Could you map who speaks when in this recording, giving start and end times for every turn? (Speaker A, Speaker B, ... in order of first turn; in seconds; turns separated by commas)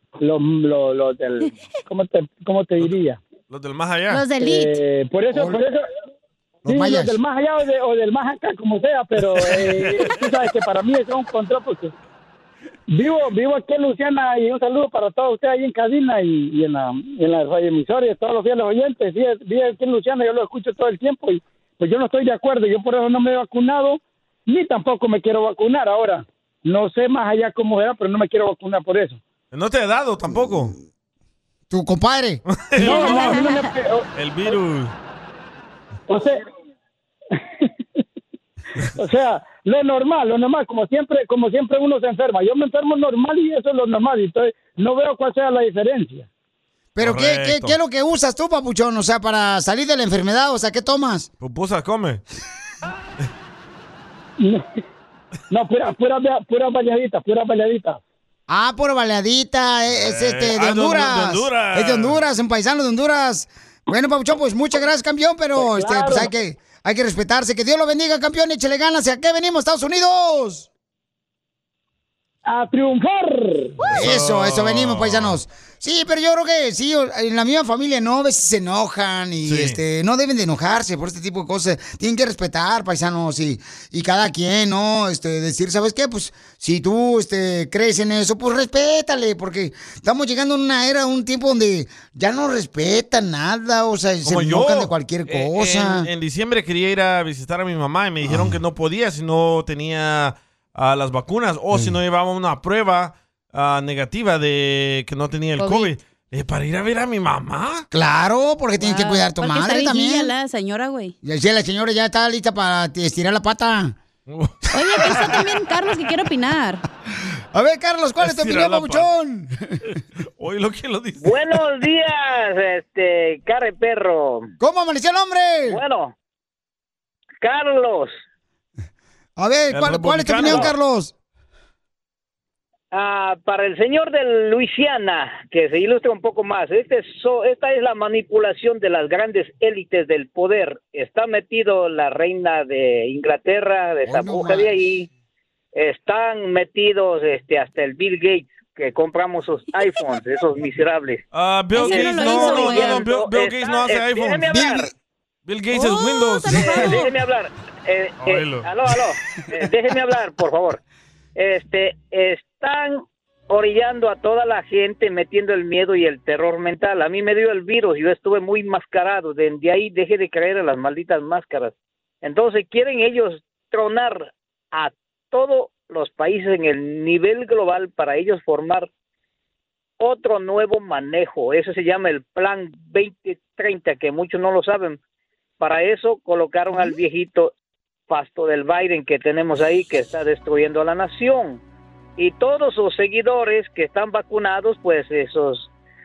Speaker A: 0.2-3.2, Speaker B: 3.5-4.2, Speaker C: 4.1-4.8, Speaker A: 4.4-5.8, Speaker D: 6.7-7.1, Speaker A: 6.7-11.9, Speaker A: 12.9-29.2, Speaker B: 29.5-30.8, Speaker D: 31.7-32.4, Speaker B: 32.5-33.4, Speaker A: 32.8-34.5, Speaker C: 32.8-33.7, Speaker B: 34.2-34.9, Speaker A: 36.1-36.4, Speaker A: 39.0-46.3, Speaker D: 47.0-51.3, Speaker B: 47.0-47.8, Speaker B: 51.4-52.2, Speaker A: 54.4-54.7, Speaker A: 55.5-58.0, Speaker D: 58.5-70.7, Speaker B: 60.0-62.2, Speaker A: 65.6-66.3, Speaker A: 72.5-73.8, Speaker D: 73.9-96.1, Speaker B: 73.9-75.4, Speaker B: 79.5-79.8, Speaker B: 94.2-107.9, Speaker D: 98.2-98.6, Speaker C: 105.6-105.9, Speaker D: 107.9-110.3, Speaker C: 108.8-111.2, Speaker D: 111.2-114.0, Speaker B: 114.3-114.6, Speaker C: 114.7-116.8, Speaker D: 117.5-119.5, Speaker B: 118.2-119.1, Speaker B: 120.4-121.6, Speaker E: 121.2-124.5, Speaker D: 124.6-125.8, Speaker E: 125.7-126.1, Speaker E: 127.4-128.2, Speaker D: 129.4-131.1, Speaker B: 129.7-130.7, Speaker E: 132.9-145.1, Speaker D: 144.1-144.7, Speaker E: 145.7-151.2, Speaker B: 151.3-154.5, Speaker C: 151.8-153.0, Speaker E: 151.8-154.9, Speaker D: 154.5-154.9, Speaker B: 155.5-157.0, Speaker C: 155.7-157.1, Speaker E: 156.5-160.8, Speaker B: 158.2-158.7, Speaker E: 161.4-178.9, Speaker E: 180.0-185.0, Speaker E: 185.6-187.5, Speaker E: 188.1-191.6, Speaker E: 192.2-195.7